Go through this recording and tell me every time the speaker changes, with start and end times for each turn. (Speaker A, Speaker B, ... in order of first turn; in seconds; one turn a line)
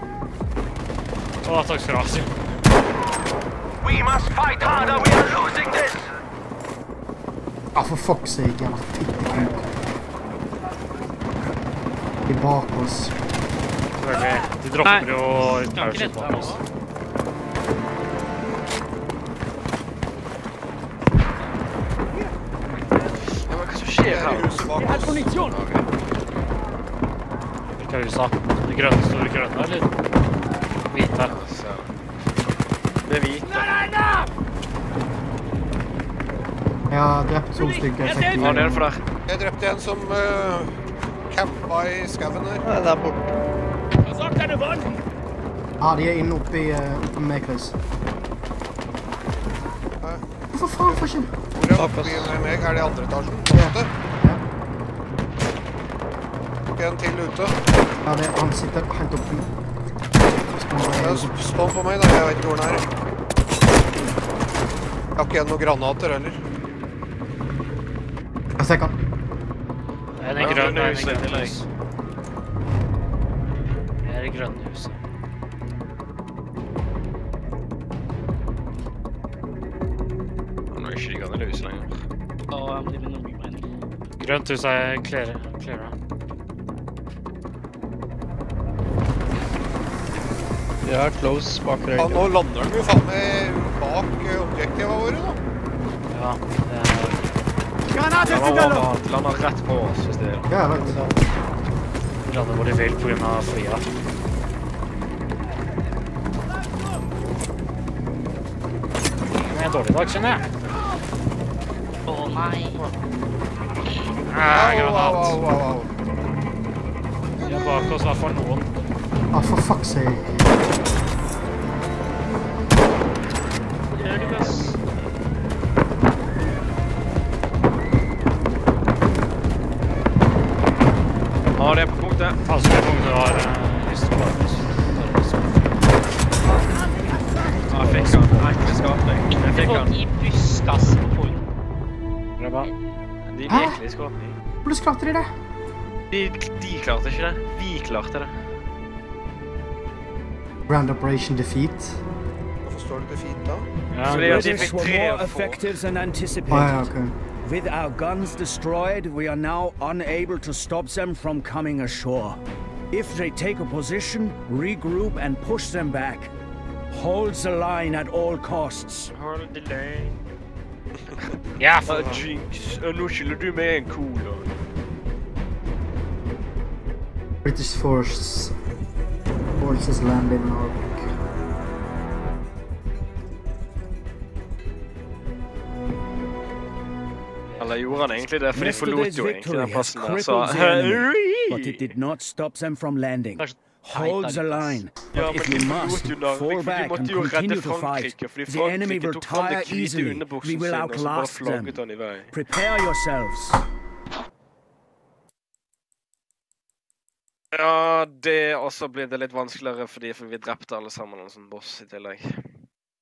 Speaker A: 1.4-2.4
Speaker B: 3.8-6.1
Speaker C: 7.8-9.7
Speaker C: 12.3-13.2
Speaker A: 14.0-16.6
Speaker D: 14.8-16.6
Speaker A: 22.7-23.1
Speaker E: 23.4-25.9
Speaker F: 24.0-25.3
Speaker A: 27.8-29.9
Speaker A: 30.9-31.4
Speaker E: 31.2-31.9
Speaker E: 33.1-33.8
Speaker C: 36.9-38.9
Speaker E: 38.4-39.0
Speaker F: 39.3-42.6
Speaker G: 42.6-43.3
Speaker C: 45.8-47.8
Speaker C: 50.5-51.3
Speaker F: 51.5-53.9
Speaker G: 51.8-52.4
Speaker C: 53.5-54.4
Speaker F: 56.8-57.6
Speaker C: 58.0-59.5
Speaker C: 60.2-61.3
Speaker F: 60.9-62.9
Speaker F: 65.2-66.4
Speaker C: 68.6-69.0
Speaker A: 70.2-71.7
Speaker E: 70.3-71.6
Speaker A: 74.0-75.0
Speaker E: 80.7-82.0
Speaker D: 82.5-83.6
Speaker A: 84.2-85.9
Speaker G: 90.8-92.3
Speaker F: 92.0-95.4
Speaker A: 96.1-97.3
Speaker E: 98.2-100.5
Speaker C: 100.5-101.0
Speaker G: 100.8-101.1
Speaker A: 102.2-103.8
Speaker A: 109.4-110.5
Speaker D: 112.1-112.8
Speaker A: 114.3-115.4
Speaker F: 114.4-115.9
Speaker A: 117.4-118.7
Speaker C: 119.3-120.5
Speaker D: 124.0-124.8
Speaker A: 124.0-124.8
Speaker E: 131.6-132.4
Speaker A: 132.4-135.7
Speaker E: 137.7-140.0
Speaker A: 138.0-138.6
Speaker D: 139.4-141.4
Speaker A: 142.4-142.7
Speaker E: 143.3-144.4
Speaker C: 143.5-143.8
Speaker C: 144.6-145.3
Speaker E: 146.1-148.5
Speaker C: 150.7-152.0
Speaker F: 152.6-153.7
Speaker A: 153.9-154.8
Speaker E: 154.1-155.7
Speaker H: 154.1-166.3
Speaker C: 156.5-157.2
Speaker H: 166.9-169.1
Speaker E: 169.1-170.2
Speaker A: 171.6-172.3
Speaker E: 171.8-174.5
Speaker C: 177.4-178.6
Speaker C: 179.6-181.1
Speaker A: 187.5-188.8
Speaker E: 187.6-191.9
Speaker H: 188.5-203.6
Speaker D: 193.4-194.8
Speaker E: 195.1-202.3
Speaker E: 207.5-212.6